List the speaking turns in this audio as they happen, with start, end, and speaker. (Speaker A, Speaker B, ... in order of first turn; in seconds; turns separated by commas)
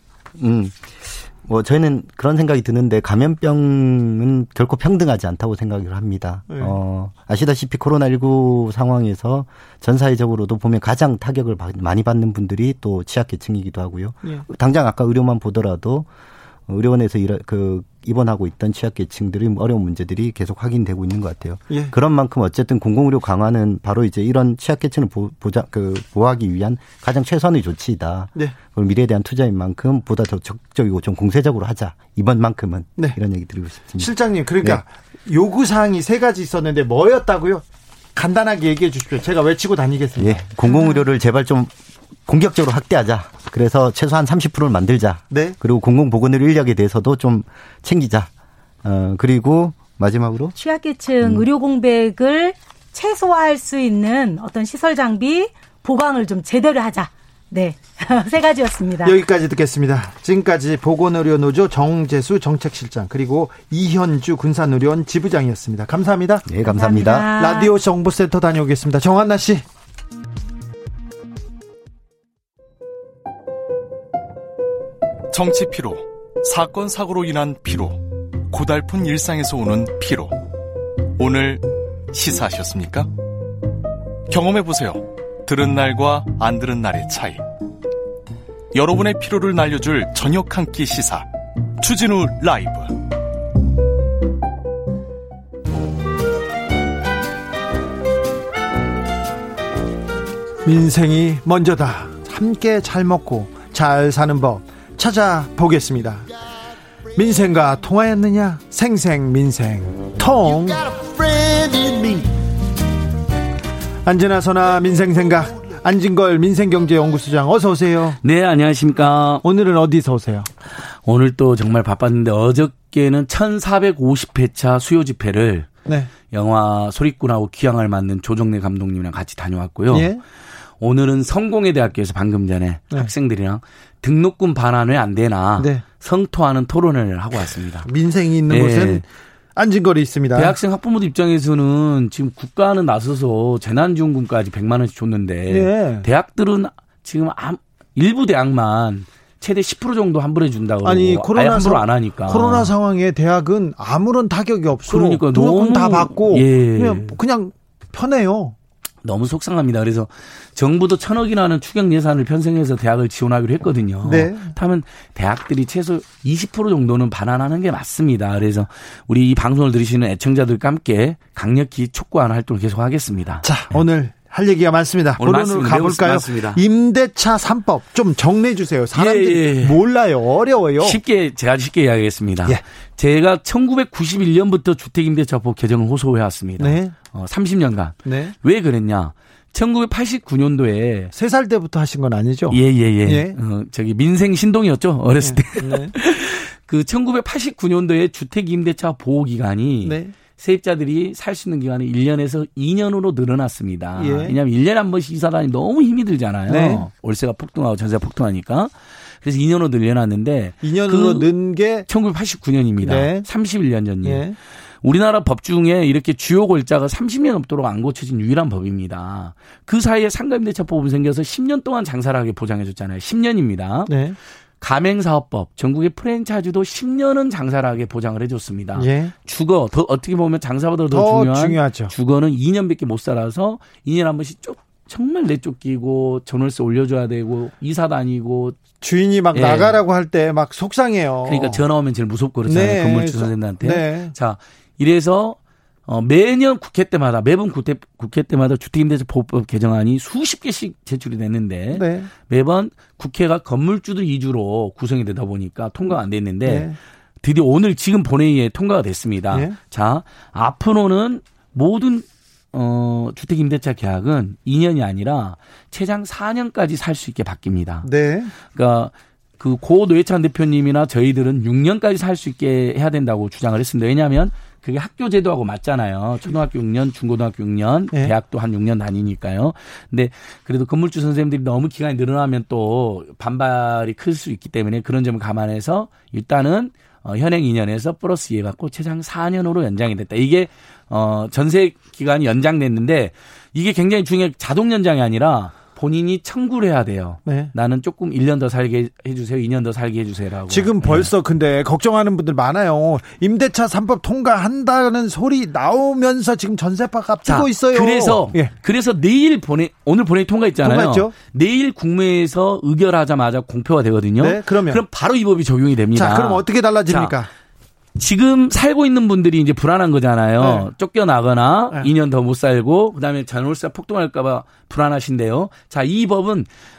Speaker A: 0.4-16.1, Speaker B: 6.5-6.8, Speaker A: 16.7-34.8, Speaker B: 34.0-37.6, Speaker B: 38.1-40.4, Speaker A: 40.2-41.7, Speaker C: 40.6-41.0, Speaker A: 42.2-48.3, Speaker B: 45.3-45.6, Speaker A: 48.8-50.5, Speaker C: 50.5-59.1, Speaker B: 59.0-66.5, Speaker A: 66.5-67.3, Speaker C: 66.7-67.7, Speaker B: 67.3-69.6, Speaker D: 75.3-80.4, Speaker D: 81.2-83.1, Speaker D: 84.3-87.5, Speaker D: 88.7-91.3, Speaker D: 91.8-93.0, Speaker B: 100.6-106.3, Speaker B: 107.1-112.3, Speaker B: 114.0-118.2, Speaker E: 118.2-119.4, Speaker B: 119.4-120.5, Speaker E: 121.0-125.7, Speaker B: 125.8-126.1, Speaker E: 126.2-130.1, Speaker B: 129.9-130.2, Speaker E: 130.8-137.9, Speaker B: 135.6-135.8, Speaker B: 137.8-139.0, Speaker E: 138.5-139.0, Speaker B: 139.6-140.6, Speaker E: 140.3-152.7, Speaker B: 145.5-146.1, Speaker B: 150.8-158.5, Speaker E: 154.9-157.2, Speaker E: 159.0-173.4, Speaker B: 164.0-164.5, Speaker B: 173.4-181.0, Speaker E: 175.2-176.6, Speaker E: 178.9-179.8, Speaker E: 180.8-191.1, Speaker B: 186.6-187.0, Speaker B: 188.0-188.3, Speaker B: 191.1-193.4, Speaker E: 192.5-211.3, Speaker B: 195.2-195.9, Speaker B: 199.8-200.1, Speaker B: 204.0-204.3, Speaker B: 206.5-206.9, Speaker B: 210.6-211.9, Speaker E: 211.9-214.2, Speaker B: 212.8-213.3, Speaker B: 214.0-214.4, Speaker E: 214.8-223.9, Speaker B: 223.9-224.2, Speaker E: 224.6-238.7, Speaker B: 228.8-229.1, Speaker B: 230.9-231.9, Speaker B: 238.8-241.6, Speaker E: 239.3-239.8, Speaker E: 241.2-267.9, Speaker B: 242.4-244.1, Speaker B: 251.7-252.1, Speaker B: 255.8-256.8, Speaker B: 259.3-259.6, Speaker B: 267.8-268.3, Speaker E: 268.5-301.1, Speaker B: 297.2-297.5, Speaker B: 300.5-308.5, Speaker E: 307.2-317.1, Speaker B: 310.6-311.1, Speaker B: 314.2-314.8, Speaker B: 315.9-317.3, Speaker E: 318.0-326.5, Speaker B: 320.4-320.7